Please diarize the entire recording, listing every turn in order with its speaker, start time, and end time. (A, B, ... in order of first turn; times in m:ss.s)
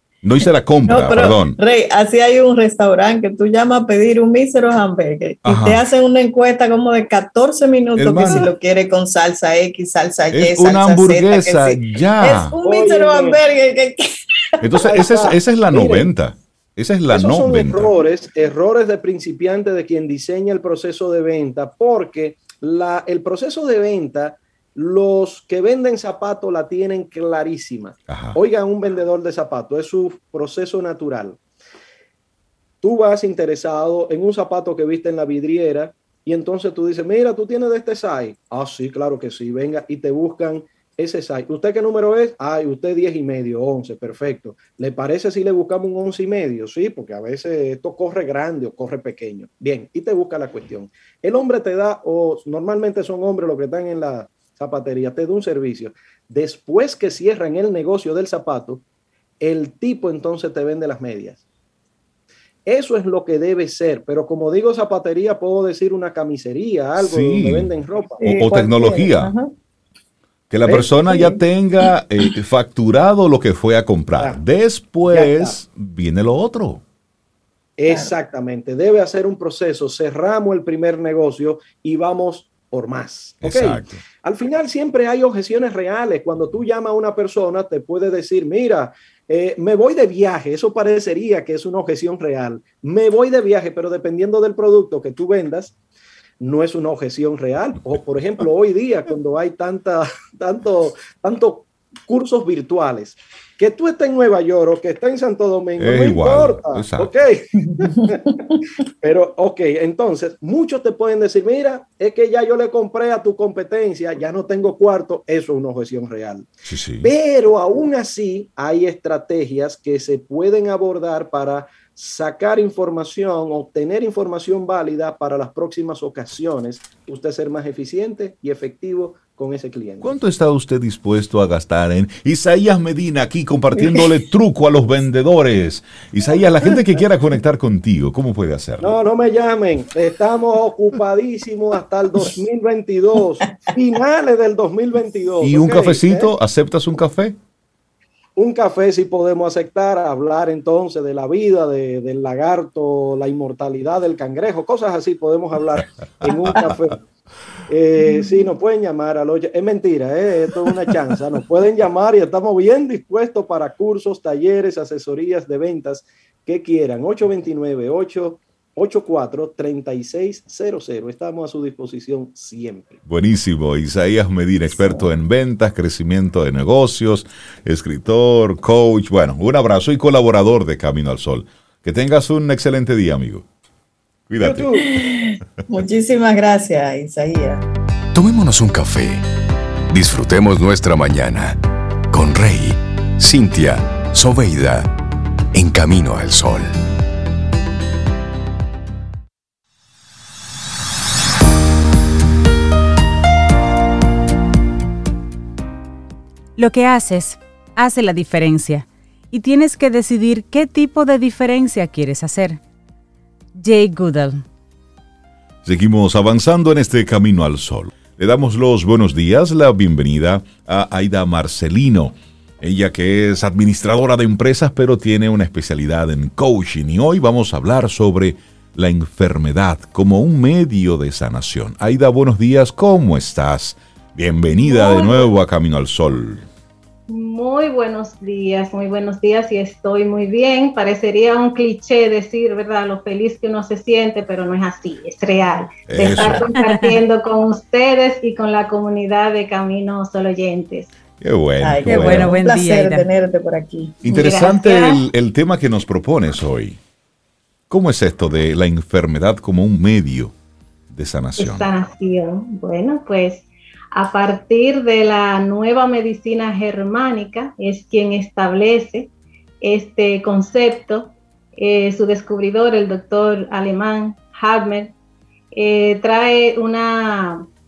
0:00.2-0:01.6 A
0:00.9-0:15.0 B
0:05.4-0:05.8 A
0:08.0-0:08.5 A
0:08.2-0:08.5 C
0:10.3-0:12.6 A
0:12.6-0:13.4 C
0:14.6-0:17.9 A
0:14.8-0:16.1 C
0:17.1-0:31.4 C
0:28.1-0:28.4 A
0:32.8-0:58.8 C
0:59.4-1:01.4 C
1:02.7-1:08.2 C
1:07.0-1:07.7 A
1:08.2-1:09.5 B
1:08.2-1:09.3 A
1:10.5-1:16.8 A
1:10.7-1:11.3 C
1:15.1-1:15.6 C
1:17.8-1:35.7 C
1:17.9-1:18.1 B
1:23.4-1:24.0 A
1:36.4-1:48.3 C
1:45.8-1:47.1 A
1:49.0-1:56.5 C
1:56.7-1:57.1 A
1:57.0-2:10.1 C
2:10.0-2:19.0 A
2:13.7-2:14.1 B
2:18.8-2:26.3 C
2:25.4-2:27.4 A
2:28.4-2:37.0 C
2:37.7-2:53.0 C
2:38.0-2:38.3 B
2:53.1-3:03.4 A
3:04.3-3:04.7 A
3:04.4-3:05.0 C
3:04.9-3:07.6 B
3:08.1-3:09.2 D
3:09.9-3:11.6 D
3:12.1-3:14.9 D
3:15.5-3:16.7 D
3:26.6-3:32.6 E
3:33.6-3:34.4 E
3:35.6-3:56.5 A
3:54.6-3:55.3 F
3:57.1-4:10.9 F
4:05.9-4:06.5 A
4:05.9-4:06.5 B
4:11.2-4:12.4 A
4:11.6-4:14.1 B
4:11.9-4:13.1 E
4:14.0-4:16.8 A
4:14.1-4:15.0 F
4:17.7-4:20.3 A
4:20.9-4:21.7 A
4:21.4-4:34.9 F
4:35.5-4:37.5 F